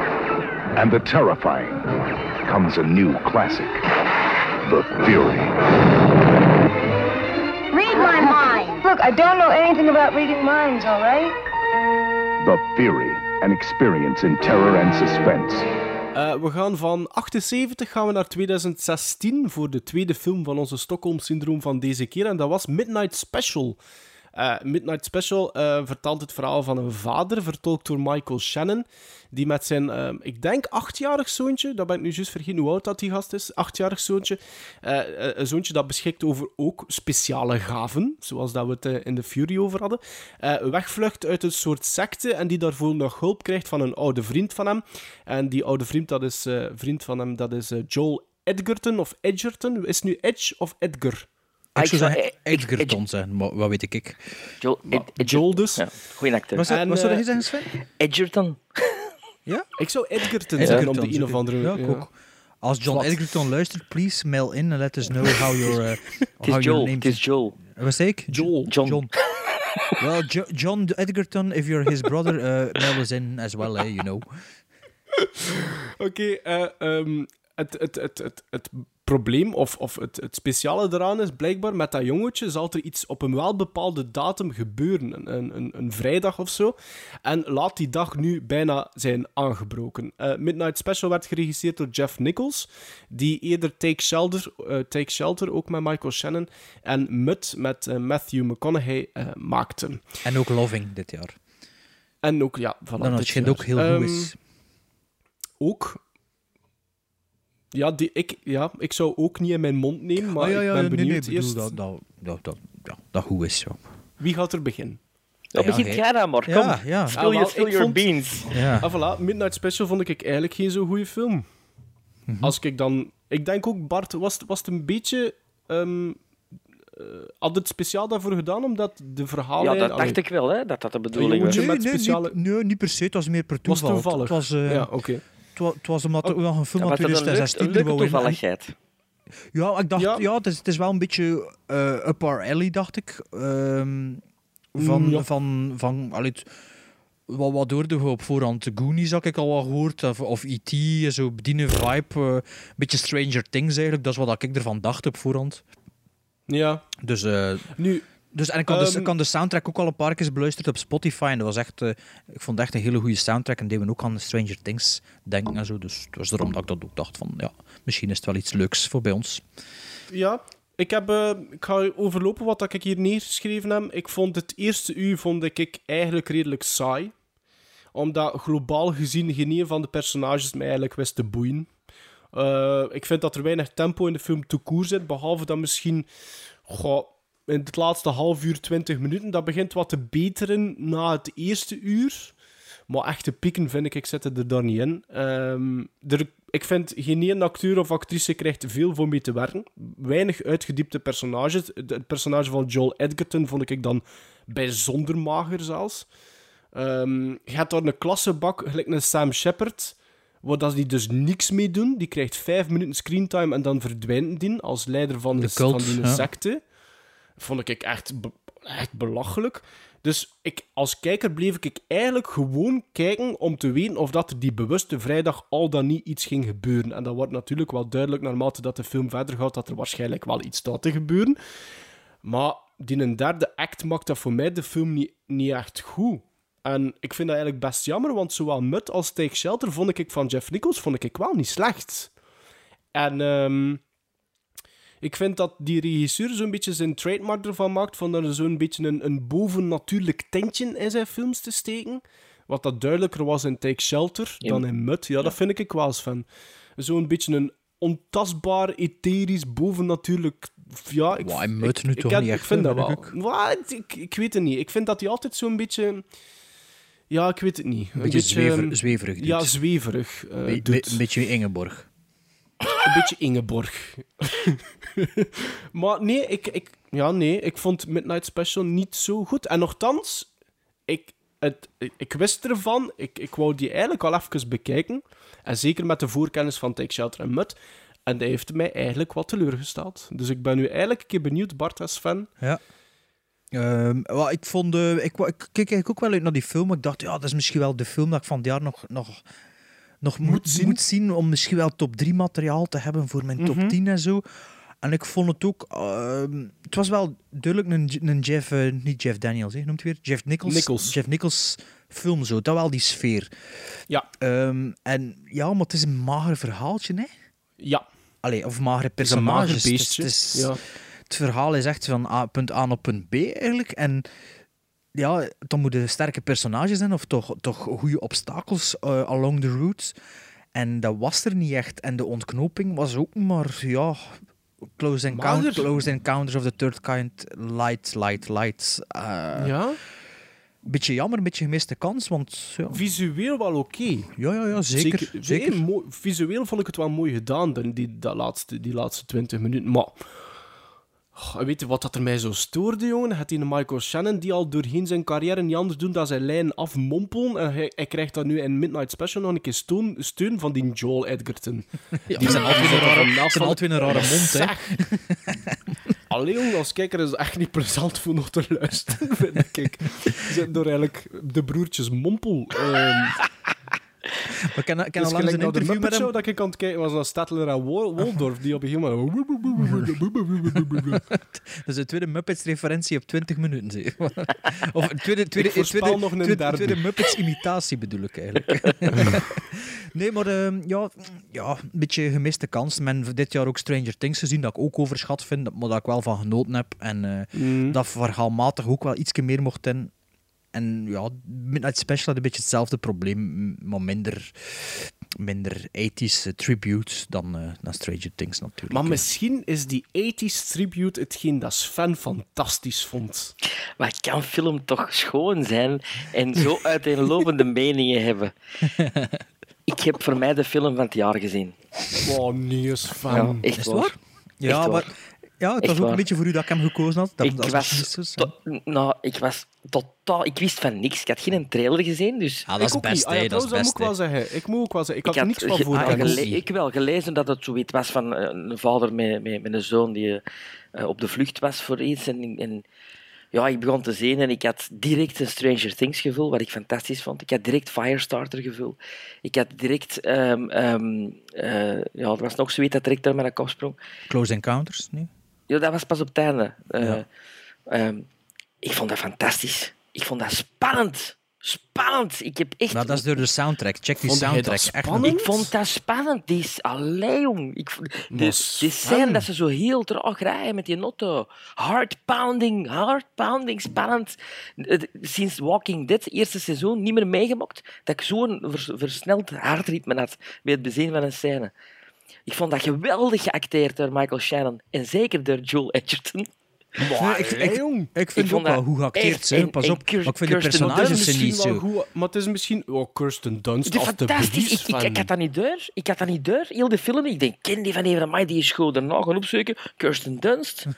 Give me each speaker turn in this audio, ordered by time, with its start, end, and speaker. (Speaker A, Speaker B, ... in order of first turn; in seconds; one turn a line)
Speaker A: 0.8-1.9
Speaker A: 2.4-3.8
Speaker A: 4.7-5.6
Speaker B: 7.7-11.3
Speaker A: 12.4-15.7
Speaker C: 16.1-23.8
Speaker C: 24.4-51.3
Speaker D: 51.8-54.3
Speaker E: 51.8-53.0
Speaker E: 54.6-56.6
Speaker C: 54.9-55.9
Speaker D: 56.5-57.7
Speaker C: 56.7-57.3
Speaker E: 57.8-59.0
Speaker C: 59.8-62.1
Speaker D: 60.6-62.1
Speaker D: 62.6-69.1
Speaker C: 62.9-63.2
Speaker E: 66.4-67.6
Speaker C: 68.3-68.7
Speaker E: 68.7-69.1
Speaker D: 70.0-74.3
Speaker C: 75.2-100.0
Speaker D: 100.2-101.4
Speaker C: 102.2-104.3
Speaker D: 103.0-104.4
Speaker C: 105.6-106.0
Speaker C: 107.7-111.8
Speaker D: 110.2-113.8
Speaker C: 114.2-115.0
Speaker E: 115.5-118.5
Speaker D: 115.5-117.2
Speaker C: 117.2-121.5
Speaker D: 118.5-118.9
Speaker D: 122.3-122.5
Speaker C: 122.4-126.2
Speaker C: 127.0-130.2
Speaker E: 129.6-131.6
Speaker C: 131.1-132.3
Speaker D: 131.5-134.9
Speaker C: 133.7-135.2
Speaker D: 135.6-138.4
Speaker E: 136.8-138.7
Speaker D: 139.5-144.2
Speaker C: 140.0-140.2
Speaker D: 144.7-146.5
Speaker C: 144.8-145.3
Speaker D: 147.3-155.6
Speaker C: 156.5-156.9
Speaker D: 157.0-157.7
Speaker C: 157.8-158.1
Speaker D: 158.3-169.4
Speaker C: 158.7-159.1
Speaker C: 170.1-177.1
Speaker C: 177.9-181.7
Speaker C: 182.3-186.1
Speaker C: 186.7-192.3
Speaker C: 192.9-206.1
Speaker C: 206.7-216.6
Speaker D: 215.4-216.3
Speaker C: 217.4-231.4
Speaker C: 232.2-242.1
Speaker C: 242.9-243.8
Speaker C: 245.0-266.0
Speaker D: 261.2-263.1
Speaker C: 267.1-271.0
Speaker D: 268.0-269.6
Speaker D: 270.4-271.9
Speaker C: 272.8-280.3
Speaker C: 280.9-292.3
Speaker D: 293.5-299.2
Speaker D: 300.0-304.2
Speaker C: 300.2-300.8
Speaker C: 303.4-303.8
Speaker D: 304.8-313.3
Speaker C: 310.5-311.0
Speaker D: 314.2-317.1
Speaker C: 317.6-317.9
Speaker D: 318.2-324.1
Speaker C: 319.0-320.6
Speaker D: 324.9-329.9
Speaker D: 330.5-334.2
Speaker D: 334.8-339.6
Speaker C: 335.1-335.7
Speaker C: 339.4-339.8
Speaker D: 340.6-342.8
Speaker C: 342.7-344.1
Speaker D: 344.2-345.6
Speaker C: 344.8-350.0
Speaker C: 351.2-364.8
Speaker D: 362.1-365.7
Speaker C: 366.1-373.2
Speaker D: 374.4-376.1
Speaker C: 375.0-381.0
Speaker D: 379.6-379.9
Speaker D: 380.5-399.9
Speaker C: 385.4-386.8
Speaker C: 397.4-397.8
Speaker D: 400.5-409.0
Speaker C: 408.7-413.3
Speaker E: 413.8-418.3
Speaker D: 418.6-419.2
Speaker E: 419.7-421.6
Speaker C: 422.0-423.4
Speaker E: 423.1-423.9
Speaker D: 423.6-428.3
Speaker E: 424.5-424.9
Speaker E: 425.6-426.0
Speaker E: 427.2-432.5
Speaker D: 432.5-433.9
Speaker C: 432.6-436.3
Speaker E: 435.1-440.2
Speaker D: 435.7-436.4
Speaker E: 440.8-442.6
Speaker E: 443.3-453.8
Speaker D: 454.1-455.1
Speaker E: 455.5-457.1
Speaker D: 456.8-457.0
Speaker E: 457.7-458.1
Speaker E: 458.6-463.1
Speaker D: 462.7-465.2
Speaker C: 464.1-465.5
Speaker E: 465.1-481.5
Speaker C: 468.1-469.3
Speaker E: 482.3-486.3
Speaker C: 486.8-487.9
Speaker D: 487.0-491.6
Speaker E: 488.1-490.9
Speaker C: 490.5-495.1
Speaker E: 493.7-500.7